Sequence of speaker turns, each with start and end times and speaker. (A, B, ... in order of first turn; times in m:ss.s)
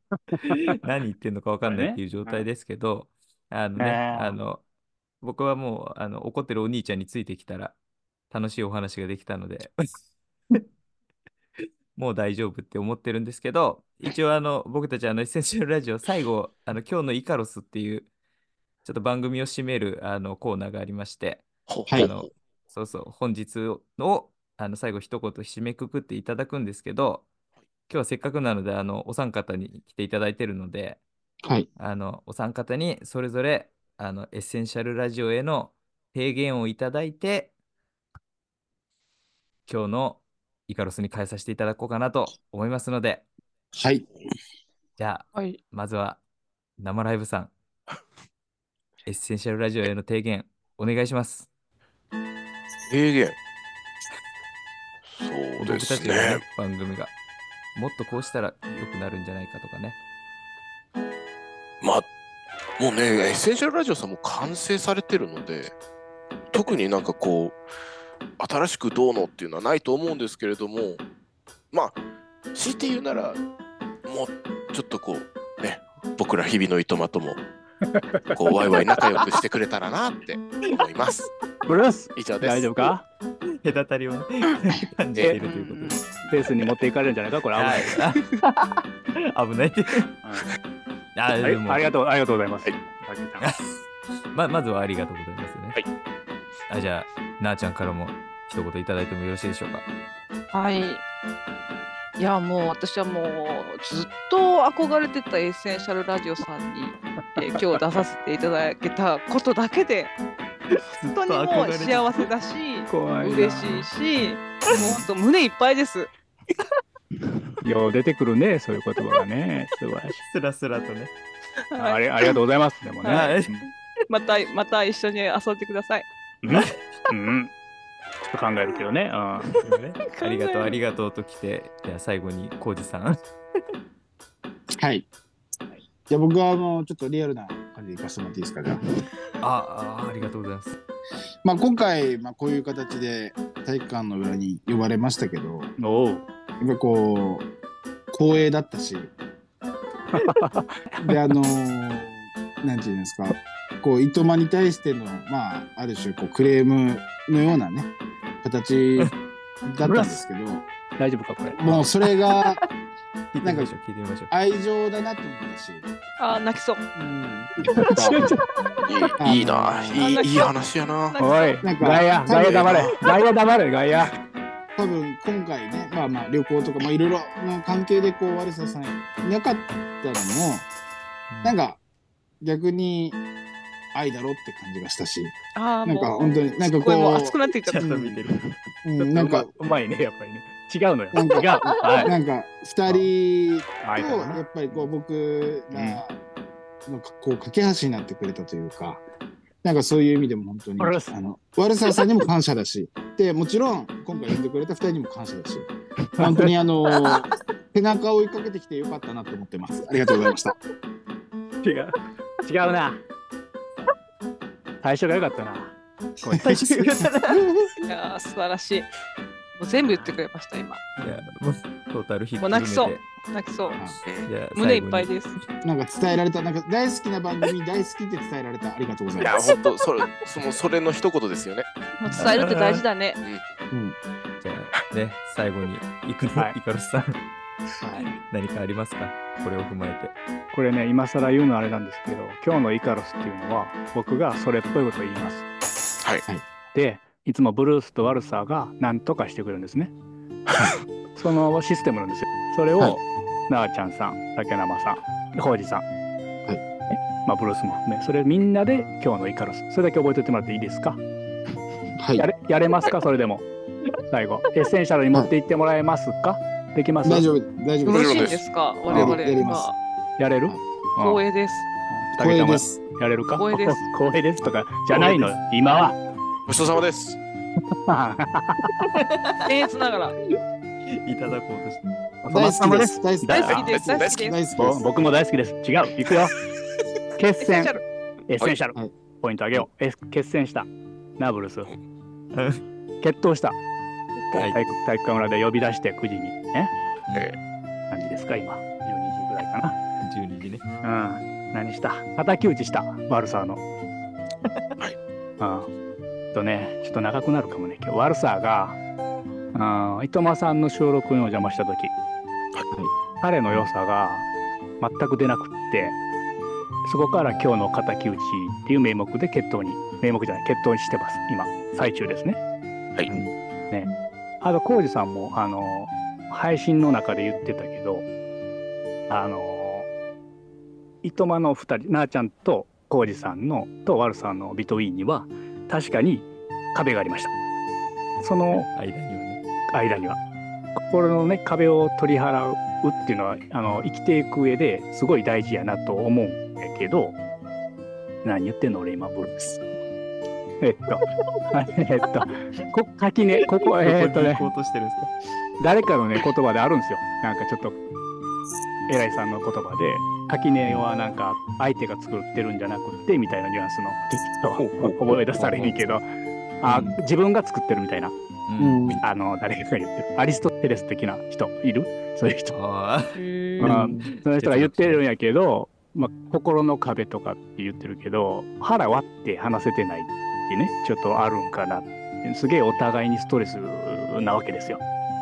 0:00.2-0:00.6 A
0:00.4-0:04.6 B
0:01.6-0:02.4 A
0:03.8-0:04.4 A
0:05.2-0:07.8 B
0:08.3-0:09.9 B
0:12.0-0:18.1 B
0:18.8-0:27.3 B
0:21.7-0:22.3 C
0:27.9-0:31.0 B
0:31.8-0:37.5 B
0:39.7-0:43.3 B
0:43.7-0:44.1 D
0:45.0-0:46.2 B
0:46.8-0:47.5 B
0:49.1-0:51.5 B
0:52.9-0:53.4 C
0:55.1-0:56.4 C
0:55.6-0:57.1 B
0:57.8-1:00.0 B
1:01.8-1:02.1 C
1:02.8-1:05.7 C
1:06.5-1:07.6 C
1:08.4-1:11.0 C
1:11.7-1:12.0 C
1:12.5-1:13.4 C
1:14.1-1:17.4 C
1:17.9-1:18.4 A
1:18.3-1:21.3 C
1:21.7-1:23.1 A
1:22.2-1:22.9 C
1:23.6-1:26.0 B
1:25.4-1:26.3 E
1:26.3-1:28.2 A
1:27.6-1:30.1 B
1:30.2-1:30.5 A
1:31.2-1:31.9 B
1:31.4-1:33.5 A
1:33.4-1:33.7 B
1:34.3-1:35.8 B
1:36.7-1:39.8 B
1:40.5-1:41.0 E
1:42.2-1:50.1 E
1:51.0-1:56.1 E
1:51.3-1:52.3 B
1:52.9-1:53.9 A
1:54.7-1:55.0 B
1:57.6-2:00.2 A
2:00.2-2:01.1 B
2:01.7-2:02.4 E
2:01.8-2:03.7 A
2:03.0-2:03.3 E
2:03.0-2:03.5 B
2:04.1-2:06.1 E
2:06.4-2:07.5 A
2:06.5-2:06.7 B
2:08.3-2:09.6 A
2:09.6-2:13.2 B
2:10.0-2:10.8 E
2:14.7-2:15.1 D
2:16.1-2:18.8 D
2:19.4-2:20.8 B
2:21.4-2:25.7 D
2:25.8-2:26.2 A
2:26.6-2:27.5 D
2:28.1-2:29.1 D
2:30.1-2:31.2 A
2:31.0-2:39.1 D
2:39.6-2:40.7 D
2:39.8-2:40.2 A
2:41.0-2:41.8 A
2:41.5-2:42.6 D
2:43.3-2:44.3 B
2:43.4-2:43.7 D
2:44.3-2:45.9 D
2:46.2-2:46.8 E
2:47.0-2:48.3 D
2:47.8-2:48.4 A
2:48.8-2:51.2 C
2:49.2-2:50.0 D
2:50.0-2:50.6 E
2:51.1-2:51.6 E
2:51.2-2:54.1 A
2:51.6-2:52.9 D
2:52.3-2:53.0 C
2:54.8-3:00.7 D
3:01.4-3:01.8 D
3:02.4-3:03.2 D
3:03.9-3:08.2 D
3:05.6-3:07.9 E
3:07.7-3:08.4 B
3:08.8-3:09.5 D
3:09.0-3:12.1 A
3:11.1-3:16.2 D
3:13.8-3:14.8 A
3:15.8-3:16.0 A
3:16.9-3:19.0 D
3:19.6-3:30.6 D
3:20.8-3:21.1 A
3:26.1-3:26.6 A
3:31.6-3:33.0 A
3:34.8-3:36.6 A
3:36.3-3:37.1 D
3:36.4-3:37.7 B
3:37.9-3:38.9 E
3:39.6-3:40.8 E
3:41.0-3:43.0 B
3:42.4-3:43.8 E
3:44.0-3:44.3 C
3:44.2-3:45.1 B
3:44.5-3:45.4 E
3:45.6-3:49.4 D
3:49.2-3:51.7 C
3:52.0-3:53.2 E
3:52.1-3:52.8 B
3:53.7-3:54.0 D
3:54.4-3:57.2 B
3:58.2-4:00.1 B
4:00.5-4:05.4 A
4:06.7-4:09.9 A
4:11.2-4:15.8 A
4:16.9-4:21.0 A
4:22.0-4:22.3 D
4:22.2-4:23.5 A
4:24.1-4:27.3 A
4:27.0-4:28.3 D
4:27.9-4:29.8 E
4:27.9-4:28.4 C
4:28.9-4:29.2 A
4:28.9-4:29.7 D
4:30.2-4:31.2 A
4:31.0-4:31.7 E
4:31.9-4:36.0 A
4:32.2-4:32.8 D
4:33.4-4:33.8 E
4:34.9-4:35.3 C
4:36.5-4:37.2 C
4:37.7-4:38.8 A
4:38.9-4:39.4 B
4:39.4-4:40.2 E
4:40.9-4:41.8 B
4:42.2-4:43.7 A
4:42.3-4:44.9 D
4:43.3-4:44.4 E
4:43.7-4:44.3 C
4:44.6-4:46.4 A
4:47.2-4:51.7 A
4:47.4-4:47.8 E
4:52.3-4:52.6 B
4:53.0-4:53.6 A
4:54.3-4:54.6 B
4:54.4-4:56.7 A
4:57.9-4:59.8 A
5:00.0-5:00.6 B
5:00.8-5:03.6 A
5:05.4-5:05.7 A
5:06.3-5:08.8 A
5:09.5-5:11.9 A
5:13.2-5:14.3 A
5:14.8-5:16.0 A
5:16.8-5:22.4 A
5:23.7-5:28.1 A
5:29.1-5:29.9 A
5:31.0-5:37.3 A
5:38.2-5:38.7 A
5:38.6-5:39.4 B
5:39.7-5:40.2 A
5:40.8-5:47.2 A
5:48.2-5:49.6 A
5:50.6-5:54.5 A
5:53.6-5:55.1 B
5:55.6-5:57.8 A
5:58.9-6:06.1 A
6:04.6-6:04.9 C
6:05.4-6:05.8 B
6:06.6-6:08.2 A
6:06.6-6:06.9 B
6:08.5-6:09.0 B
6:08.6-6:09.0 D
6:09.0-6:12.5 A
6:12.5-6:15.0 B
6:13.2-6:13.7 E
6:13.6-6:24.8 A
6:13.6-6:14.1 D